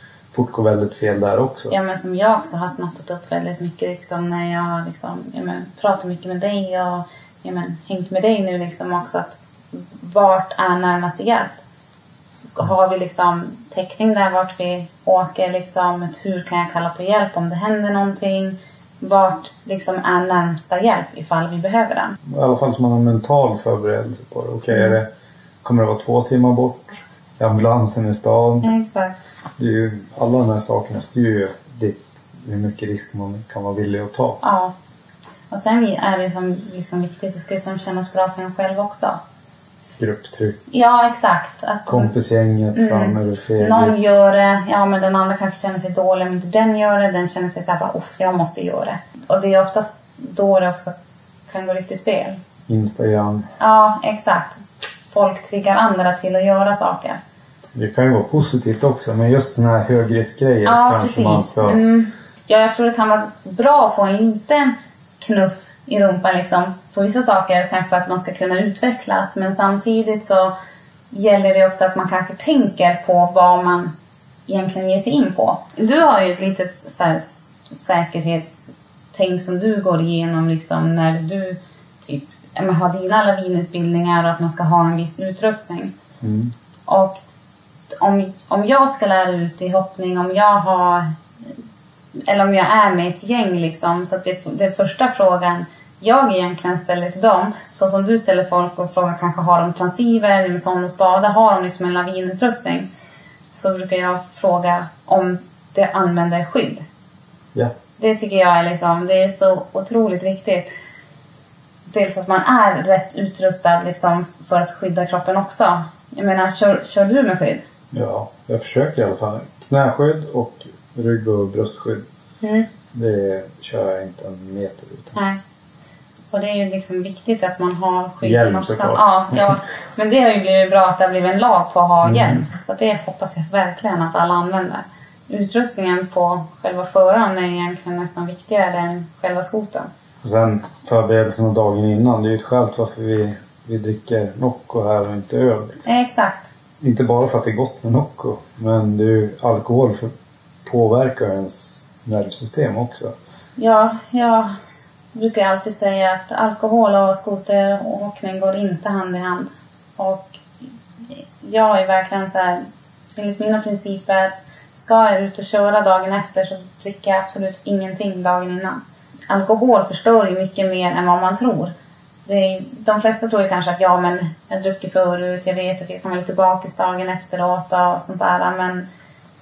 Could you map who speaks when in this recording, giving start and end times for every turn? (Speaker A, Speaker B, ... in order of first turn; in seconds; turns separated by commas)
Speaker A: 0.3-1.7, Speaker B: 1.7-11.6, Speaker B: 12.6-22.2, Speaker A: 22.3-25.1, Speaker A: 25.6-28.7, Speaker B: 28.6-29.2, Speaker A: 29.6-34.4, Speaker B: 34.4-34.7, Speaker B: 35.5-39.2, Speaker A: 40.0-40.6, Speaker B: 40.7-42.1, Speaker A: 41.9-44.2, Speaker B: 42.7-50.9, Speaker B: 51.5-52.4, Speaker A: 52.7-53.5, Speaker B: 53.6-54.6, Speaker B: 55.1-57.2, Speaker A: 57.8-61.8, Speaker B: 60.7-70.5, Speaker B: 71.1-73.9, Speaker B: 74.5-85.9, Speaker A: 86.2-86.5, Speaker B: 86.9-87.2, Speaker B: 88.0-91.1, Speaker B: 92.3-102.9, Speaker B: 103.5-106.8, Speaker B: 108.0-110.7, Speaker B: 111.9-117.7, Speaker A: 117.9-122.0, Speaker B: 122.4-122.7, Speaker A: 122.9-125.2, Speaker B: 125.2-125.4, Speaker B: 126.3-139.9, Speaker A: 128.2-129.6, Speaker A: 132.0-132.4, Speaker A: 140.2-145.9, Speaker B: 145.9-146.5, Speaker A: 146.8-150.1, Speaker A: 150.7-153.1, Speaker B: 153.6-154.5, Speaker B: 155.1-160.4, Speaker B: 161.1-162.6, Speaker B: 163.2-171.7, Speaker B: 172.2-178.9